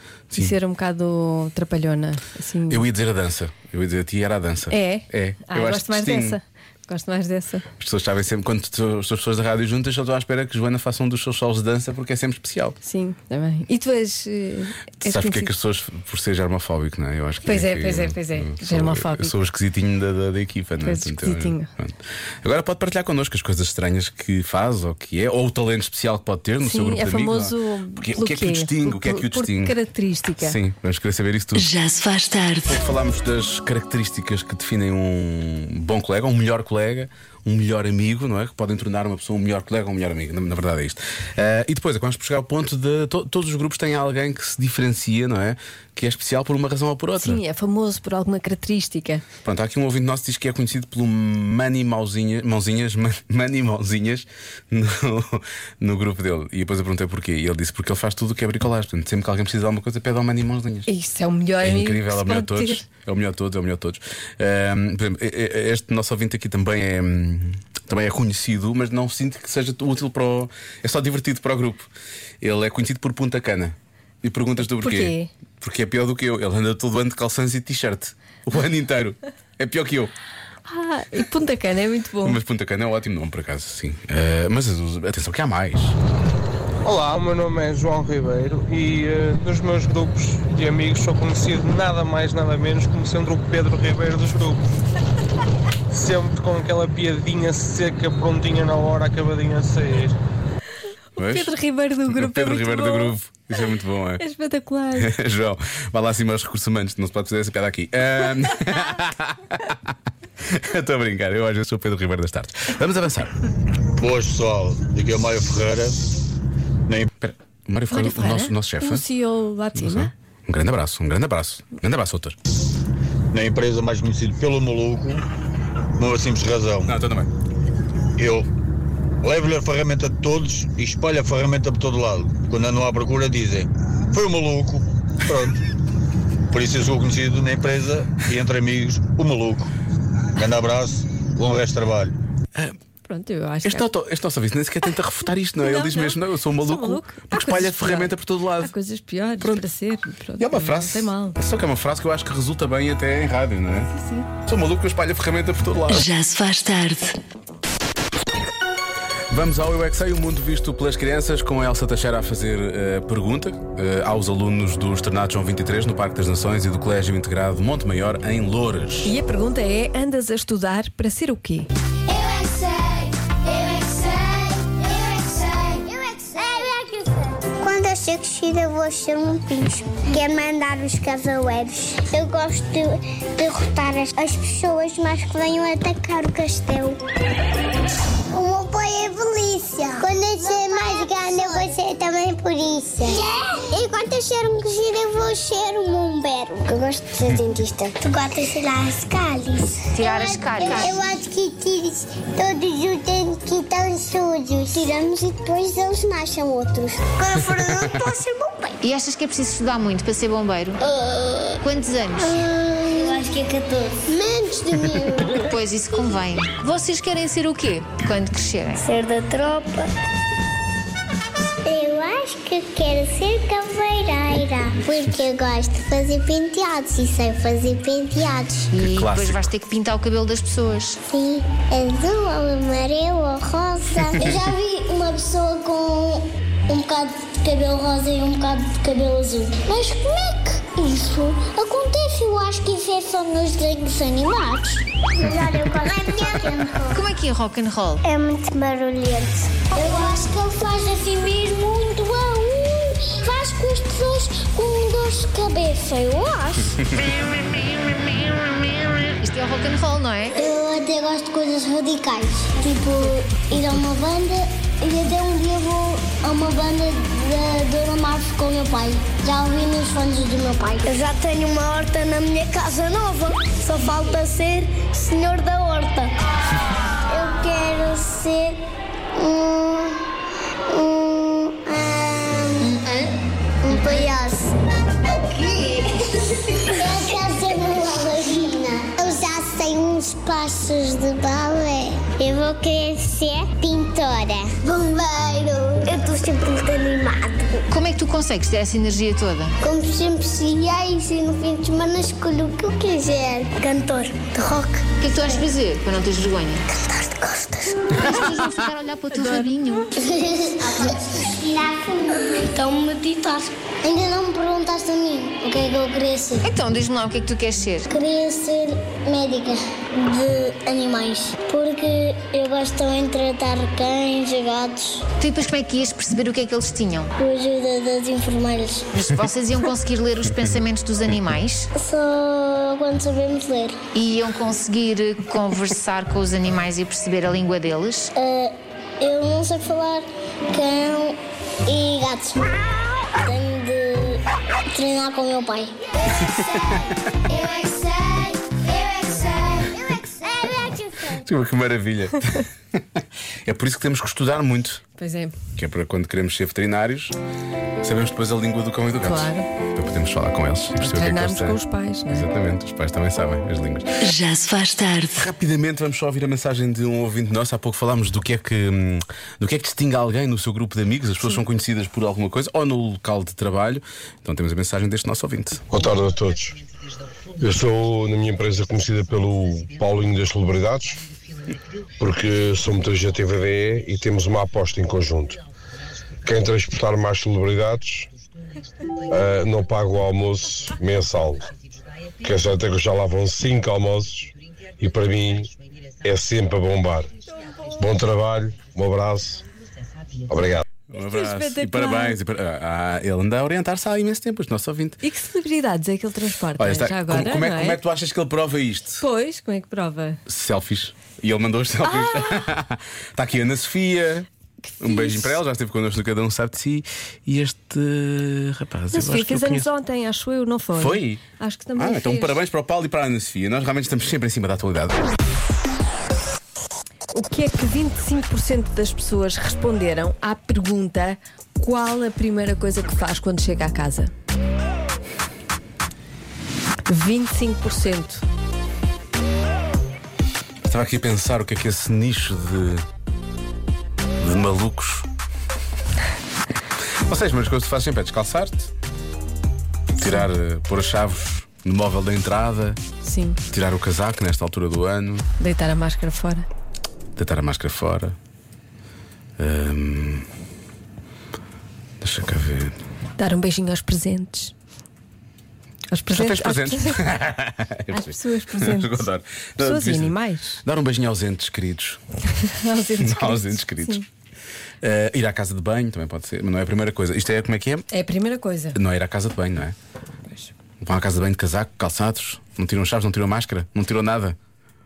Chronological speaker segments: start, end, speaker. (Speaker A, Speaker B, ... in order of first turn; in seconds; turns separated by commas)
Speaker A: 0.3-2.8, Speaker B: 2.7-6.4, Speaker A: 4.7-7.7, Speaker B: 7.8-12.8, Speaker A: 12.8-15.5, Speaker B: 15.0-29.8, Speaker A: 17.4-19.3, Speaker A: 20.8-21.7, Speaker A: 26.6-30.6, Speaker B: 30.4-31.7, Speaker C: 31.5-32.8, Speaker B: 32.7-47.4, Speaker A: 47.2-49.2, Speaker B: 49.4-60.9, Speaker A: 60.9-62.8, Speaker B: 61.6-71.9, Speaker B: 72.4-80.1, Speaker A: 74.6-75.3, Speaker A: 80.7-82.4, Speaker B: 82.2-86.0, Speaker D: 86.8-94.6, Speaker D: 95.9-100.2, Speaker B: 101.2-101.5, Speaker A: 101.2-103.1, Speaker B: 102.1-104.2, Speaker A: 104.2-105.1, Speaker B: 105.0-113.3, Speaker E: 114.0-116.0, Speaker B: 117.2-119.0, Speaker A: 117.9-120.1, Speaker B: 119.7-122.4, Speaker E: 123.3-125.2, Speaker E: 126.0-126.9, Speaker B: 126.8-127.3, Speaker E: 128.2-128.5, Speaker E: 129.2-135.6, Speaker E: 136.5-139.7, Speaker E: 140.3-142.1, Speaker A: 143.1-143.8, Speaker B: 143.6-148.7, Speaker A: 145.6-151.4, Speaker B: 150.4-153.9, Speaker A: 153.9-154.3, Speaker B: 154.4-156.1, Speaker C: 155.9-157.1, Speaker B: 159.3-169.1, Speaker A: 169.0-171.7, Speaker F: 172.2-172.5, Speaker F: 175.7-187.0, Speaker F: 188.3-208.7, Speaker G: 199.9-201.0, Speaker G: 208.8-210.8, Speaker F: 210.9-211.6, Speaker G: 211.6-212.4, Speaker F: 212.2-215.5, Speaker G: 215.4-218.8, Speaker F: 218.8-219.9, Speaker F: 221.6-228.7, Speaker G: 228.7-231.0, Speaker B: 228.8-229.5, Speaker F: 231.1-247.0, Speaker G: 246.9-248.0, Speaker F: 248.0-256.7, Speaker G: 259.2-260.4, Speaker F: 260.4-276.1, Speaker F: 277.1-278.6, Speaker F: 279.1-280.0, Speaker F: 280.7-282.8, Speaker F: 283.6-284.5, Speaker F: 286.7-297.6, Speaker G: 297.7-299.5, Speaker F: 299.6-304.8, Speaker G: 305.0-306.6, Speaker F: 306.7-308.1, Speaker G: 308.0-309.9, Speaker F: 310.0-316.4, Speaker G: 316.4-317.9, Speaker F: 317.9-325.0, Speaker G: 325.2-327.1, Speaker F: 327.2-328.9, Speaker G: 328.9-331.7, Speaker F: 331.7-333.8, Speaker G: 333.9-338.1, Speaker F: 338.1-345.7, Speaker B: 346.2-346.9, Speaker F: 347.3-351.2, Speaker B: 351.2-354.8, Speaker A: 355.0-355.4, Speaker B: 355.6-357.1, Speaker B: 357.8-361.6, Speaker A: 359.0-359.5, Speaker A: 360.8-362.2, Speaker B: 362.1-363.9, Speaker C: 364.0-365.2, Speaker B: 365.2-375.7, Speaker H: 375.7-376.6, Speaker H: 377.4-381.0, Speaker H: 382.0-385.4, Speaker H: 386.2-388.1, Speaker H: 389.1-391.4, Speaker H: 392.2-395.5, Speaker H: 396.0-397.1, Speaker A: 397.3-397.8, Speaker H: 397.8-399.4, Speaker H: 400.3-400.6, Speaker B: 400.9-405.0, Speaker A: 400.9-402.2, Speaker A: 405.0-407.8, Speaker B: 406.6-409.0, Speaker A: 409.0-410.2, Speaker B: 410.2-414.3, Speaker A: 411.8-412.5, Speaker A: 414.6-415.4, Speaker B: 414.8-419.7, Speaker A: 418.9-422.4, Speaker B: 420.7-421.2, Speaker B: 421.8-425.0, Speaker A: 427.1-434.1, Speaker A: 436.9-438.2, Speaker B: 440.6-442.9, Speaker B: 444.2-445.1, Speaker B: 447.0-448.7, Speaker B: 450.0-452.8, Speaker A: 453.0-453.4, Speaker B: 453.5-455.3, Speaker A: 455.4-456.5, Speaker B: 457.1-458.1, Speaker B: 459.4-460.3, Speaker B: 462.0-462.8, Speaker A: 463.2-464.5, Speaker A: 465.9-467.0, Speaker B: 466.1-472.0, Speaker A: 467.9-469.0, Speaker A: 469.6-470.6, Speaker A: 472.3-474.0, Speaker B: 472.9-474.0, Speaker B: 474.8-477.9, Speaker A: 477.9-478.8, Speaker B: 478.7-479.8, Speaker B: 480.8-484.4